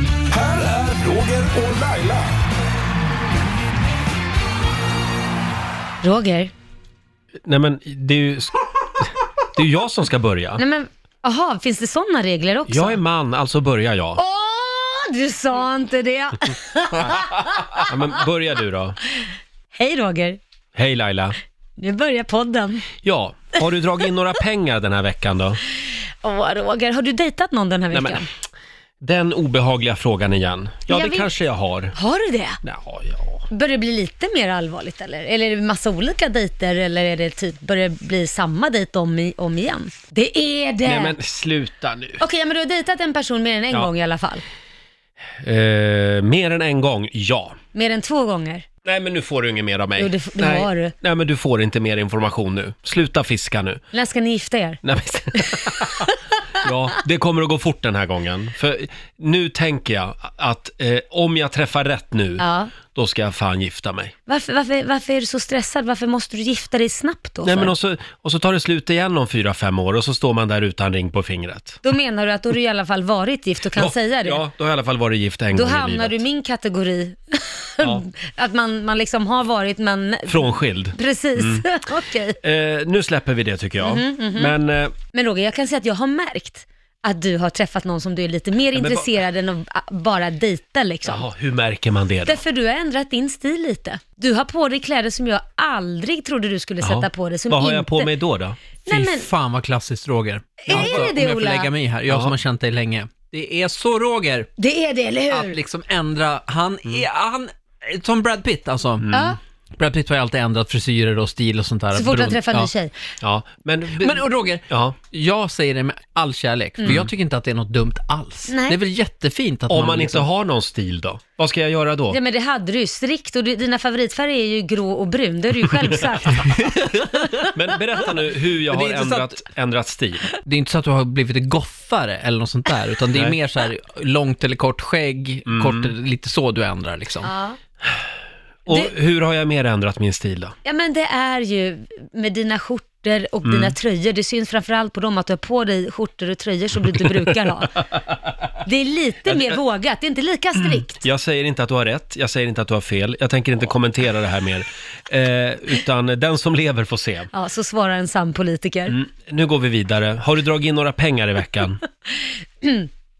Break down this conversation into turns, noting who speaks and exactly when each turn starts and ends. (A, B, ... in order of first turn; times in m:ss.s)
0:00.3-0:02.3 A
0:06.0-0:06.5 B
0:07.4-0:08.6 C
0:09.5-0:10.6 C
0:10.6-0:13.0 B
0:12.7-0:14.2 C
0:14.2-0:17.9 B
0:17.8-0:19.0 C
0:19.7-0:20.4 B
0:20.7-0:21.4 C
0:21.8-0:22.9 B
0:23.0-0:25.6 C
0:26.2-0:28.3 B
0:27.9-0:28.2 C
0:29.0-0:31.9 C
0:30.9-0:31.3 B
0:31.9-0:32.6 B
0:32.6-0:33.4 C
0:33.5-0:41.2 B
0:40.8-0:42.2 C
0:42.2-0:44.4 B
0:45.4-0:47.6 C
0:47.7-0:48.6 B
0:48.8-0:53.8 C
0:50.0-0:50.9 B
0:53.9-0:54.8 B
0:54.8-1:04.1 C
0:55.3-0:56.2 B
1:02.4-1:02.7 B
1:04.3-1:07.7 B
1:07.4-1:11.8 C
1:11.8-1:14.4 B
1:13.8-1:16.2 C
1:15.5-1:22.4 B
1:20.3-1:21.6 C
1:22.4-1:24.9 C
1:23.8-1:24.5 B
1:25.1-1:31.2 B
1:28.7-1:29.1 C
1:31.0-1:32.4 C
1:32.2-1:38.1 B
1:36.8-1:38.6 C
1:38.8-1:39.3 B
1:38.9-1:44.5 D
1:40.6-1:41.7 B
1:40.7-1:41.1 C
1:42.1-1:42.3 C
1:44.6-1:45.6 B
1:45.3-1:49.1 D
1:49.0-1:49.3 C
1:49.1-1:49.4 B
1:49.8-1:52.7 D
1:51.9-1:52.9 B
1:53.2-1:55.0 C
1:54.0-2:00.2 D
1:56.8-1:57.0 B
1:56.8-1:57.1 C
1:58.5-1:58.8 B
1:59.7-2:02.2 C
2:02.1-2:07.5 B
2:06.5-2:07.4 D
2:07.4-2:10.2 C
2:08.6-2:09.4 D
2:10.4-2:17.3 D
2:15.5-2:15.9 C
2:17.2-2:17.6 B
2:18.6-2:20.5 C
2:20.6-2:27.8 B
2:23.4-2:23.7 C
2:28.6-2:31.0 B
2:29.3-2:29.6 C
2:30.6-2:37.3 C
2:37.3-2:39.0 B
2:38.9-2:41.8 C
2:42.2-2:42.9 B